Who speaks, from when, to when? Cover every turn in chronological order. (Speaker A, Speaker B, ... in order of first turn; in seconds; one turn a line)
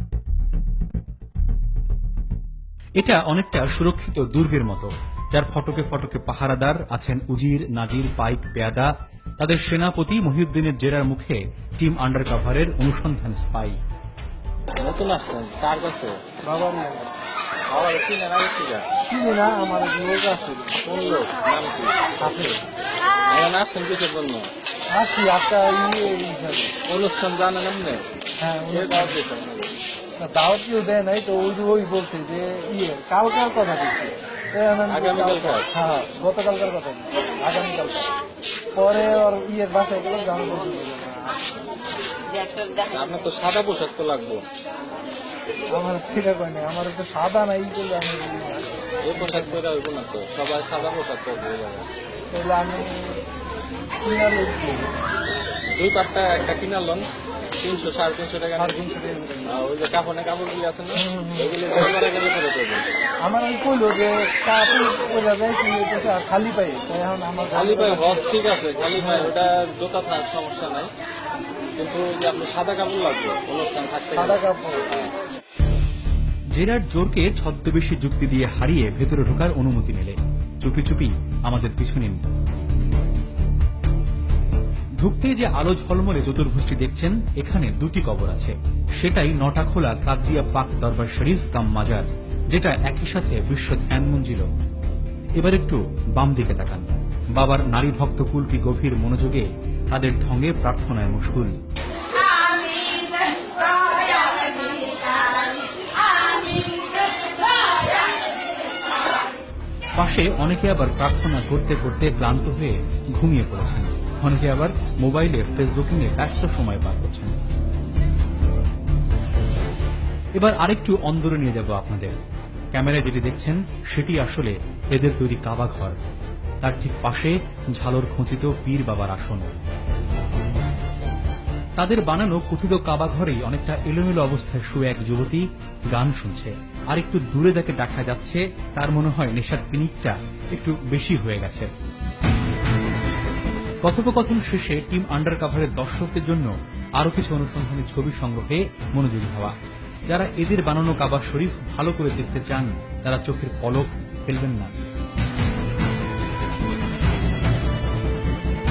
Speaker A: 3.0-13.8
Speaker B: 14.8-16.2
Speaker C: 16.4-17.1
Speaker B: 17.7-18.9
Speaker C: 19.1-20.8
Speaker B: 20.8-22.0
Speaker C: 22.2-22.5
Speaker B: 23.3-24.5
Speaker C: 24.9-26.7
Speaker B: 26.9-28.0
Speaker C: 28.4-29.2
Speaker B: 28.7-29.7
Speaker C: 30.2-37.9
Speaker B: 34.9-35.7
Speaker B: 37.5-37.8
Speaker C: 38.8-41.4
Speaker B: 42.9-44.4
Speaker C: 45.7-49.6
Speaker B: 49.0-51.9
Speaker C: 52.3-53.2
Speaker C: 54.0-54.9
Speaker B: 55.7-57.0
Speaker B: 57.6-58.8
Speaker C: 58.6-59.4
Speaker B: 59.5-62.8
Speaker C: 61.0-61.9
Speaker C: 63.2-68.3
Speaker B: 67.5-70.9
Speaker C: 68.9-69.3
Speaker B: 71.8-74.4
Speaker C: 74.2-74.8
Speaker A: 76.5-82.2
Speaker A: 85.0-94.5
Speaker A: 95.4-101.5
Speaker A: 110.0-117.4
Speaker A: 120.4-122.2
Speaker A: 122.7-126.0
Speaker A: 126.6-129.5
Speaker A: 131.8-141.7
Speaker A: 143.8-149.5
Speaker A: 150.1-154.8